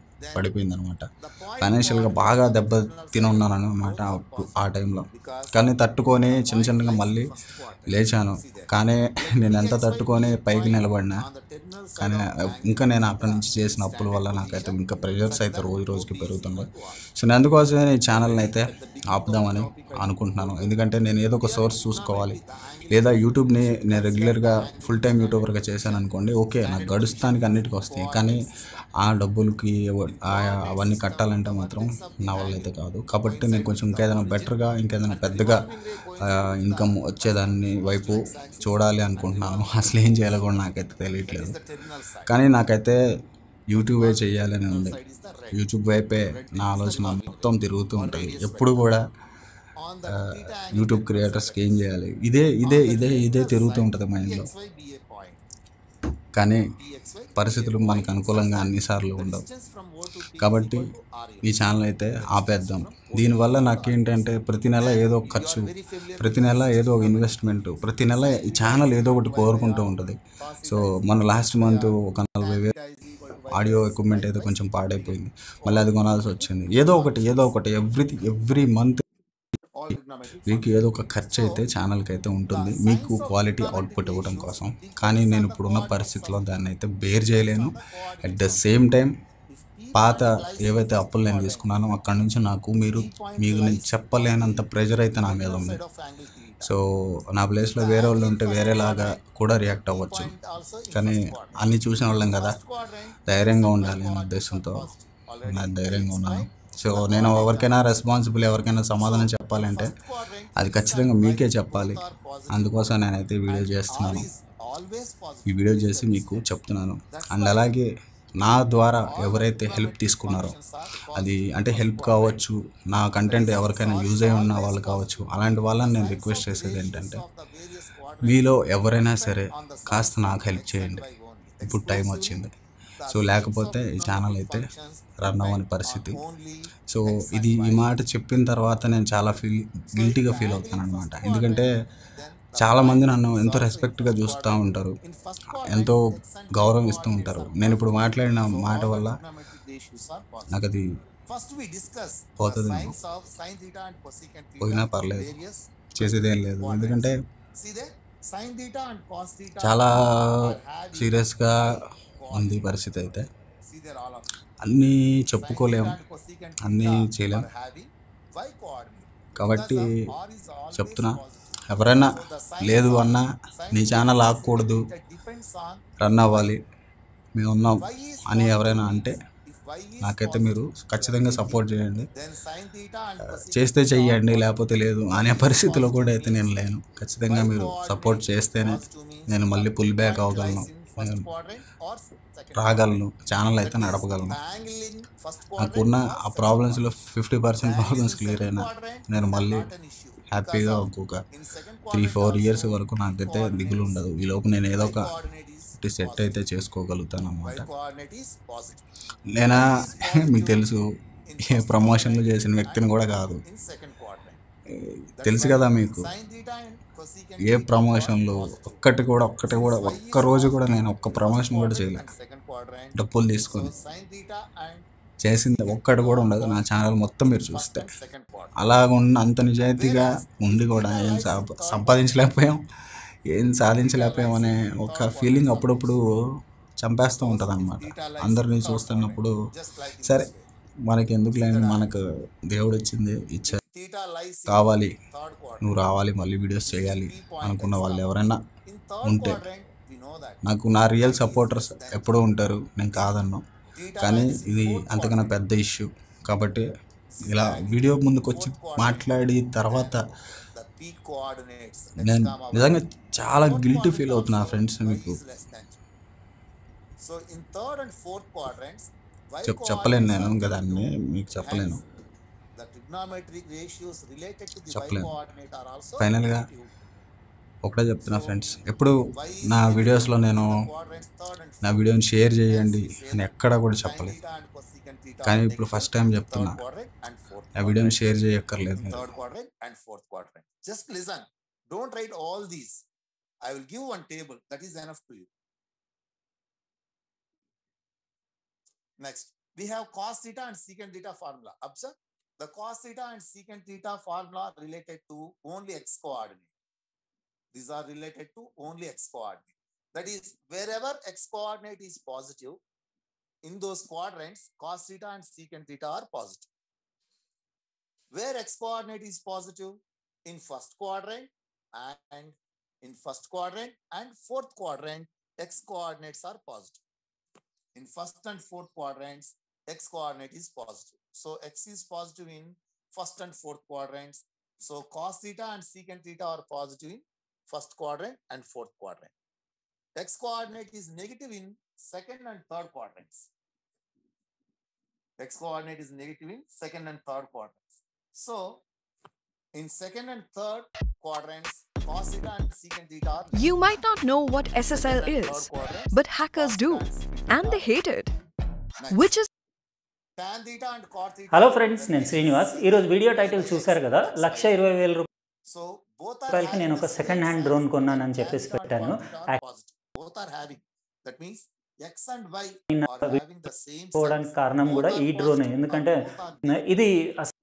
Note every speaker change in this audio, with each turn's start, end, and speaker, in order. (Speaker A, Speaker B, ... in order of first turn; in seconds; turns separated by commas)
Speaker A: 0.2-0.5, Speaker B: 0.3-1.1, Speaker A: 1.2-17.0, Speaker B: 1.6-7.3, Speaker B: 7.9-11.2, Speaker B: 12.0-28.5, Speaker A: 18.1-26.1, Speaker A: 26.6-28.7, Speaker B: 29.0-41.6, Speaker A: 30.2-32.7, Speaker A: 33.2-42.4, Speaker B: 42.2-43.0, Speaker B: 43.7-45.0, Speaker A: 43.8-45.6, Speaker B: 45.5-49.0, Speaker A: 46.3-48.9, Speaker A: 49.8-51.9, Speaker B: 50.1-54.5, Speaker A: 52.6-55.4, Speaker B: 56.4-56.6, Speaker A: 56.7-77.6, Speaker B: 57.3-59.5, Speaker B: 60.4-60.9, Speaker B: 61.4-72.7, Speaker B: 73.5-79.0, Speaker A: 79.7-81.7, Speaker B: 80.5-89.1, Speaker A: 82.5-86.6, Speaker A: 87.1-88.8, Speaker A: 89.5-91.7, Speaker B: 89.9-95.8, Speaker A: 92.9-96.7, Speaker B: 96.6-100.3, Speaker A: 97.7-108.1, Speaker B: 100.9-102.6, Speaker B: 103.2-104.9, Speaker B: 105.4-110.0, Speaker A: 108.6-117.7, Speaker B: 110.6-114.3, Speaker B: 115.5-117.9, Speaker B: 118.4-120.6, Speaker A: 119.0-122.4, Speaker B: 121.1-127.2, Speaker A: 123.2-132.4, Speaker B: 128.2-131.1, Speaker B: 131.6-132.5, Speaker A: 133.0-138.0, Speaker B: 133.1-134.7, Speaker B: 135.2-136.2, Speaker B: 136.9-141.7, Speaker A: 139.9-150.6, Speaker B: 142.6-145.0, Speaker B: 145.5-149.2, Speaker B: 150.5-150.8, Speaker A: 151.2-159.9, Speaker B: 152.4-153.0, Speaker B: 154.6-155.3, Speaker B: 155.9-157.2, Speaker B: 159.6-163.2, Speaker A: 160.4-164.3, Speaker B: 164.6-166.0, Speaker A: 165.4-176.5, Speaker B: 166.6-167.4, Speaker B: 169.4-169.9, Speaker B: 170.7-174.9, Speaker B: 176.0-176.6, Speaker B: 177.3-179.2, Speaker A: 177.8-186.6, Speaker B: 180.0-182.1, Speaker B: 183.2-191.3, Speaker A: 187.3-193.1, Speaker B: 192.6-194.4, Speaker A: 193.6-197.1, Speaker B: 195.6-199.7, Speaker A: 197.6-204.1, Speaker B: 200.3-201.2, Speaker B: 201.9-205.2, Speaker A: 204.7-206.4, Speaker B: 205.8-207.7, Speaker A: 207.4-208.9, Speaker B: 209.3-210.8, Speaker A: 209.5-210.7, Speaker A: 211.2-214.4, Speaker B: 211.4-213.4, Speaker B: 214.8-216.1, Speaker A: 215.2-218.9, Speaker B: 217.4-222.1, Speaker A: 219.4-224.9, Speaker B: 222.9-223.7, Speaker B: 225.2-227.9, Speaker A: 225.6-228.5, Speaker B: 228.6-232.6, Speaker A: 229.7-232.4, Speaker B: 233.3-236.0, Speaker A: 233.8-236.0, Speaker B: 236.8-239.3, Speaker A: 237.1-240.5, Speaker B: 240.0-240.3, Speaker B: 240.9-243.6, Speaker A: 241.3-241.9, Speaker A: 243.5-245.8, Speaker B: 244.5-244.9, Speaker B: 245.6-248.4, Speaker A: 246.7-248.1, Speaker A: 248.6-250.4, Speaker B: 249.0-249.4, Speaker B: 250.4-253.4, Speaker A: 251.0-252.3, Speaker A: 253.7-255.4, Speaker B: 254.0-256.7, Speaker A: 257.1-265.8, Speaker B: 257.2-260.0, Speaker B: 262.0-265.2, Speaker A: 267.0-272.0, Speaker B: 269.4-271.8, Speaker A: 272.5-276.7, Speaker B: 274.7-275.1, Speaker B: 276.0-276.5, Speaker B: 277.6-280.6, Speaker A: 278.0-288.0, Speaker B: 281.6-284.2, Speaker B: 285.2-286.6, Speaker B: 287.6-289.1, Speaker A: 288.8-292.9, Speaker A: 293.4-295.3, Speaker A: 299.0-306.5, Speaker A: 307.5-312.6, Speaker A: 313.4-316.5, Speaker A: 318.1-326.8, Speaker A: 327.7-339.1, Speaker A: 339.9-343.3, Speaker A: 345.2-348.6, Speaker A: 349.5-353.5, Speaker C: 353.3-358.1, Speaker A: 354.7-357.7, Speaker A: 358.8-359.2, Speaker C: 358.9-359.3, Speaker A: 360.2-364.6, Speaker D: 361.3-365.1, Speaker A: 365.4-376.6, Speaker D: 366.3-369.4, Speaker D: 372.7-373.2, Speaker D: 373.9-377.3